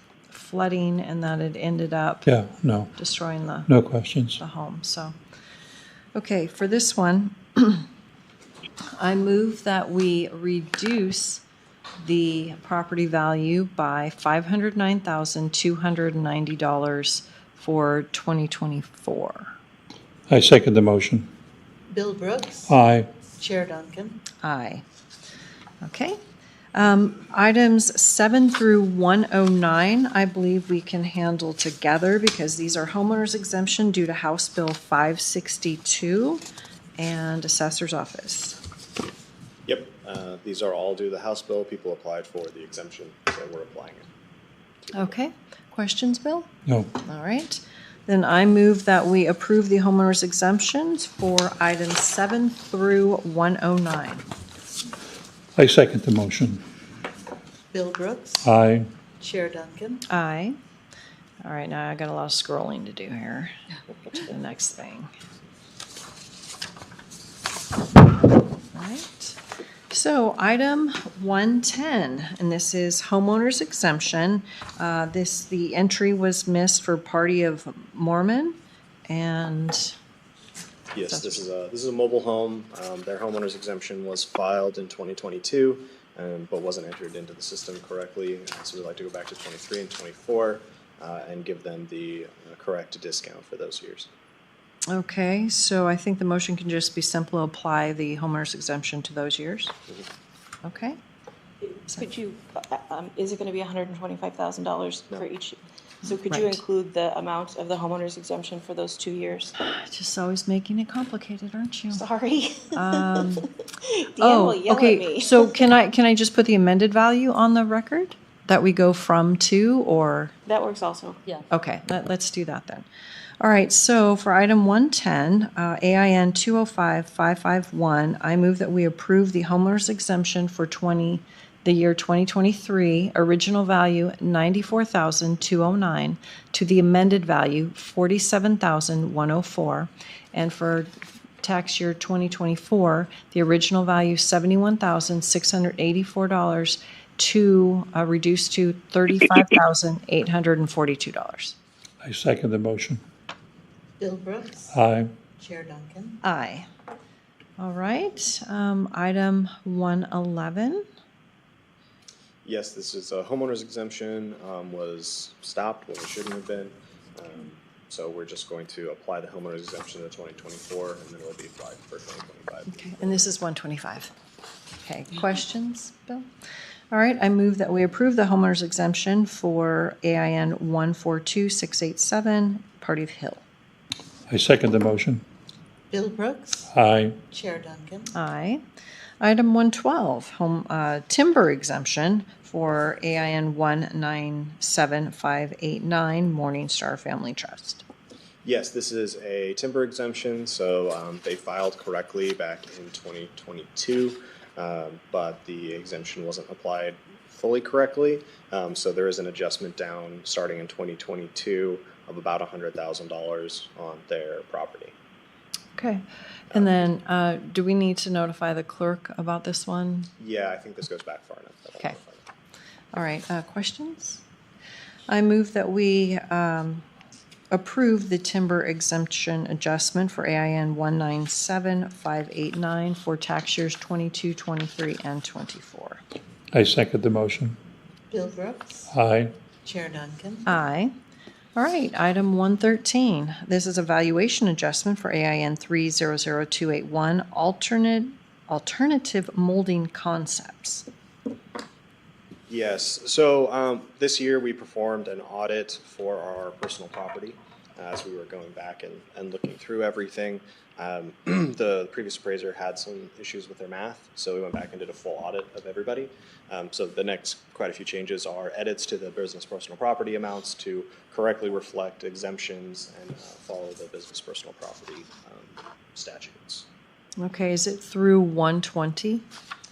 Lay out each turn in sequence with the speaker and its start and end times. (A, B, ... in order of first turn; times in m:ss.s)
0:00.3-0:02.3 A
0:02.3-0:03.0 B
0:03.0-0:03.7 A
0:03.7-0:04.4 B
0:04.4-0:05.2 A
0:06.2-0:07.9 A
0:09.0-0:11.4 A
0:12.0-0:19.5 A
0:20.3-0:21.3 B
0:21.9-0:22.7 C
0:22.7-0:23.1 B
0:23.4-0:24.2 C
0:24.4-0:24.8 A
0:25.8-0:26.2 A
0:26.7-0:36.4 A
0:37.0-0:38.6 A
0:39.7-0:44.1 D
0:44.9-0:45.1 D
0:44.9-0:54.2 A
0:46.7-0:46.9 B
0:55.6-0:56.6 B
0:57.7-0:58.5 C
0:58.4-0:58.9 B
0:59.2-1:00.0 C
1:00.1-1:00.6 A
1:01.4-1:03.5 A
1:04.1-1:05.1 A
1:08.7-1:18.6 A
1:19.1-1:20.0 A
1:20.9-1:34.1 D
1:21.1-1:21.4 A
1:34.9-1:39.8 A
1:40.6-1:41.0 A
1:41.9-1:49.5 E
1:46.3-1:46.6 A
1:49.6-1:52.0 A
1:51.9-1:55.6 E
1:52.7-1:53.5 A
1:54.2-2:00.4 A
2:00.5-2:01.4 E
2:01.5-2:02.9 A
2:03.4-2:31.6 A
2:32.0-2:33.0 B
2:34.0-2:34.7 C
2:34.7-2:35.1 B
2:35.4-2:36.2 C
2:36.2-2:36.7 A
2:37.6-2:40.8 A
2:42.4-2:53.3 D
2:52.7-2:54.1 A
2:54.8-2:56.3 A
2:56.9-3:03.4 A
3:04.3-3:05.2 B
3:05.9-3:06.7 C
3:06.7-3:07.2 B
3:07.3-3:08.1 C
3:08.1-3:08.6 A
3:09.2-3:17.8 A
3:18.4-3:35.0 D
3:35.8-3:40.1 A
3:36.5-3:36.8 D
3:40.2-3:42.3 D
3:42.9-3:44.2 A
3:45.1-3:46.8 A
3:47.5-3:56.0 A
3:56.5-3:57.6 B
3:58.1-3:58.9 C
3:58.9-3:59.4 B
3:59.6-4:00.5 C
4:00.5-4:00.9 A
4:01.6-4:10.9 A
4:12.5-4:36.7 D
4:37.2-4:39.3 A